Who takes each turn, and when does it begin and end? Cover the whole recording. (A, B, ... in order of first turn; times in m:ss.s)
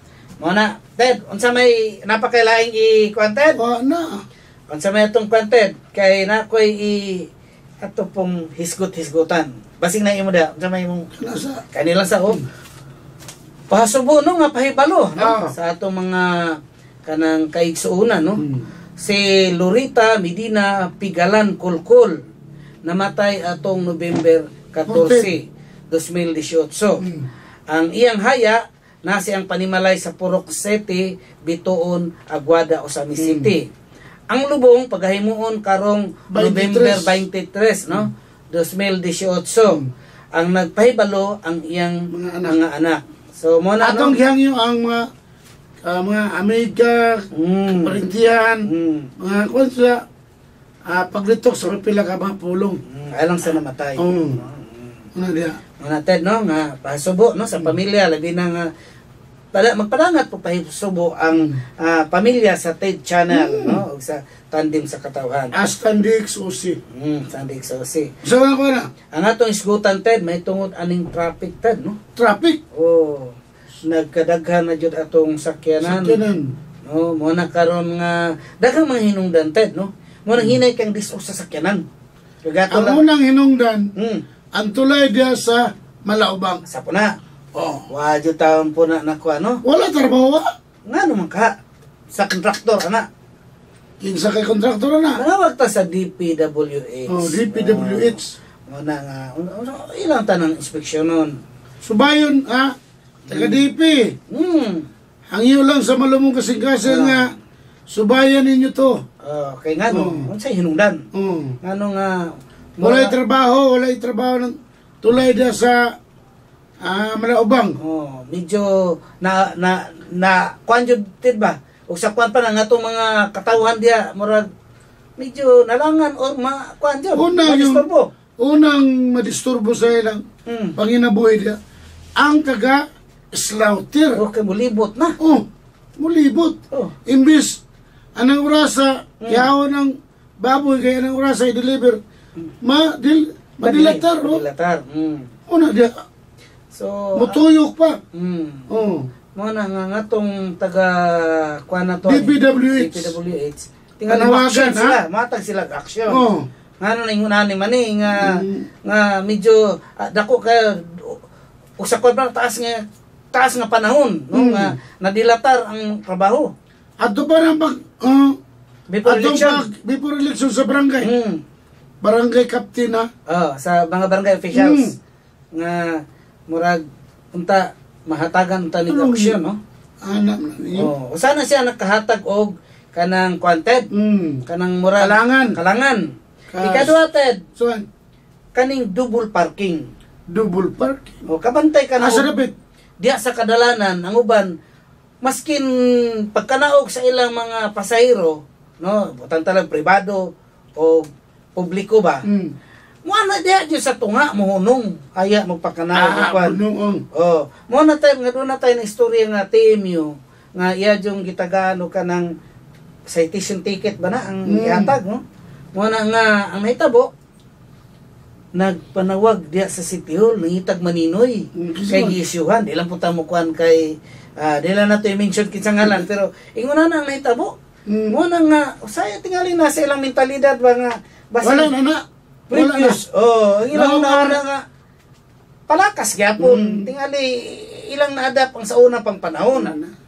0:00.4-0:03.6 A
0:03.6-0:04.2 B
0:04.7-0:07.2 A
0:07.8-0:11.1 A
0:11.2-0:11.6 B
0:11.7-0:12.4 A
0:13.7-0:16.3 A
0:15.2-0:15.5 B
0:17.1-0:18.4 A
0:18.4-0:18.7 B
0:19.0-0:22.2 A
0:22.9-0:27.0 A
0:24.9-0:25.3 B
0:27.0-0:27.3 B
0:27.7-0:33.7 A
0:33.2-0:33.5 B
0:34.3-0:39.8 A
0:36.3-0:37.2 B
0:40.4-0:44.2 A
0:42.1-0:42.6 B
0:43.8-0:45.1 B
0:45.8-0:47.3 B
0:47.3-0:48.0 A
0:47.8-0:48.7 B
0:48.7-0:49.1 A
0:49.2-0:50.0 B
0:50.9-0:52.8 B
0:52.9-0:54.9 A
0:54.0-0:54.4 B
0:55.2-0:55.6 B
0:55.8-0:58.6 A
0:59.5-1:05.5 A
1:01.3-1:01.6 B
1:03.3-1:03.8 B
1:05.6-1:06.8 B
1:06.9-1:08.1 A
1:08.2-1:08.9 B
1:09.1-1:12.0 A
1:12.2-1:12.6 B
1:12.8-1:16.2 A
1:15.8-1:16.5 B
1:16.9-1:21.8 A
1:22.5-1:23.0 A
1:22.7-1:23.8 B
1:24.0-1:24.2 A
1:24.6-1:26.6 B
1:26.7-1:27.1 A
1:27.6-1:27.9 B
1:27.9-1:29.6 A
1:29.6-1:30.5 B
1:30.9-1:31.5 A
1:32.1-1:33.1 A
1:34.0-1:35.2 B
1:35.2-1:38.2 A
1:37.1-1:38.4 B
1:38.7-1:41.3 A
1:41.8-1:42.8 B
1:43.3-1:43.6 A
1:43.3-1:44.1 B
1:44.3-1:44.9 A
1:45.3-1:47.3 B
1:46.9-1:47.3 A
1:47.9-1:49.0 B
1:49.2-1:51.0 A
1:49.9-1:50.3 B
1:51.1-1:51.6 B
1:51.6-1:52.2 A
1:52.8-1:53.1 A
1:52.8-1:55.9 B
1:56.8-1:57.8 B
1:57.8-1:58.7 A
1:59.2-2:04.4 A
2:05.2-2:08.1 A
2:07.1-2:07.8 B
2:08.4-2:10.2 B
2:10.5-2:10.7 A
2:10.8-2:11.6 B
2:12.2-2:14.2 B
2:14.2-2:15.2 A
2:15.2-2:15.5 B
2:16.0-2:17.6 B
2:18.2-2:22.0 B
2:19.2-2:19.5 A
2:22.6-2:24.4 B
2:23.6-2:25.3 A
2:25.5-2:25.9 B
2:26.7-2:27.4 A
2:27.2-2:28.0 B
2:28.2-2:28.7 A
2:28.7-2:29.1 B
2:29.4-2:36.2 A
2:32.1-2:33.2 B
2:34.1-2:35.0 B
2:36.1-2:36.5 B
2:36.8-2:41.2 A
2:38.2-2:38.7 B
2:41.8-2:42.8 A
2:43.3-2:46.5 A
2:44.3-2:44.7 B
2:47.0-2:48.4 B
2:48.9-2:49.6 A
2:49.0-2:51.1 B
2:51.0-2:51.4 A
2:52.0-2:53.1 B
2:53.3-2:54.9 A
2:54.5-2:54.9 B
2:55.6-2:56.0 A
2:56.5-2:56.8 A
2:57.3-2:59.6 A
2:58.9-2:59.4 B
3:00.0-3:00.9 B
3:00.8-3:03.9 A
3:03.9-3:04.4 B
3:04.5-3:06.0 A
3:05.0-3:05.6 B
3:06.5-3:07.0 B
3:06.6-3:07.4 A
3:07.6-3:07.9 B
3:08.6-3:09.8 A
3:10.3-3:11.2 B
3:11.3-3:12.3 A
3:12.0-3:12.5 B
3:13.0-3:14.5 A
3:15.2-3:15.7 A
3:16.3-3:20.3 A
3:20.8-3:22.2 A
3:22.3-3:22.5 B
3:23.0-3:26.6 A
3:26.0-3:27.0 B
3:27.2-3:32.3 A
3:33.1-3:35.2 A
3:34.5-3:34.9 B
3:35.8-3:37.1 A
3:38.6-3:43.9 A
3:41.6-3:42.2 B
3:44.4-3:47.5 A
3:47.9-3:48.2 B
3:48.1-3:51.7 A
3:51.4-3:53.0 B
3:52.5-3:54.6 A
3:53.7-3:54.4 B
3:55.7-3:59.7 A
3:56.4-3:56.9 B
3:59.5-3:59.9 B